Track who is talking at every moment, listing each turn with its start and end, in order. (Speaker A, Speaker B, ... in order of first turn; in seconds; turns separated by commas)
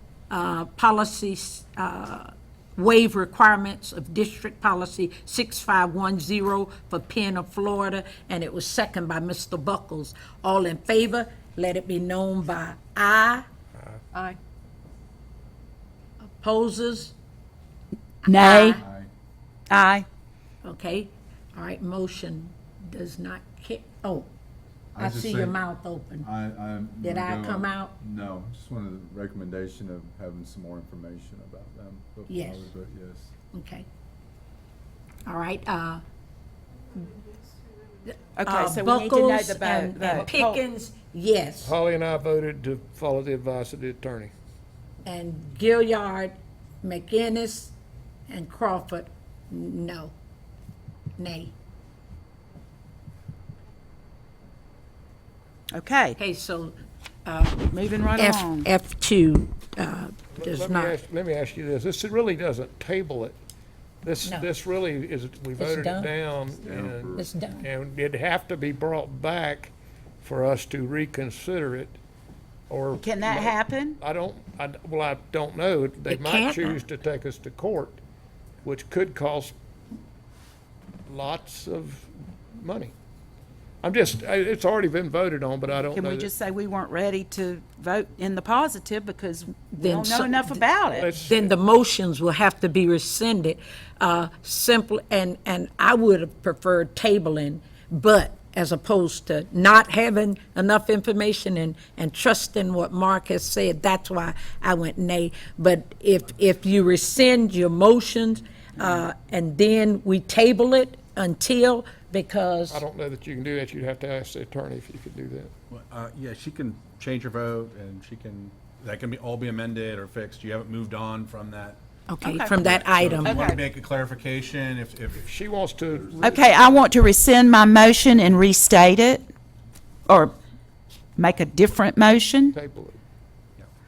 Speaker A: 0.3-13.4, Speaker A: 16.2-17.1, Speaker A: 18.2-18.8, Speaker B: 18.2-18.8, Speaker C: 18.7-19.1, Speaker B: 19.7-20.1, Speaker A: 20.6-24.3, Speaker C: 24.9-25.6, Speaker A: 25.0-26.3, Speaker C: 26.2-33.3, Speaker A: 27.0-27.9, Speaker A: 32.3-32.7, Speaker A: 33.5-33.9, Speaker A: 35.2-36.0, Speaker B: 38.4-40.6, Speaker A: 38.4-41.8, Speaker D: 41.6-44.3, Speaker A: 45.0-47.7, Speaker A: 48.3-50.1, Speaker A: 51.2-51.5, Speaker B: 55.7-56.2, Speaker A: 56.2-61.0, Speaker B: 57.7-58.7, Speaker D: 60.3-63.4, Speaker D: 64.0-72.0, Speaker A: 64.2-64.5, Speaker A: 65.6-66.1, Speaker C: 66.6-67.3, Speaker A: 67.1-67.6, Speaker D: 72.7-78.0, Speaker B: 73.0-74.0, Speaker A: 76.1-76.8, Speaker D: 78.6-79.5, Speaker D: 81.1-82.9, Speaker D: 83.8-86.3, Speaker B: 85.9-91.2, Speaker A: 89.7-90.7, Speaker D: 90.9-91.5, Speaker A: 91.2-112.8, Speaker D: 112.7-115.5, Speaker E: 115.7-121.8, Speaker A: 122.1-123.4, Speaker B: 122.2-123.6, Speaker E: 122.6-125.3, Speaker D: 125.2-126.4, Speaker B: 126.2-129.2, Speaker B: 130.1-130.3, Speaker B: 131.2-132.6, Speaker D: 132.5-133.0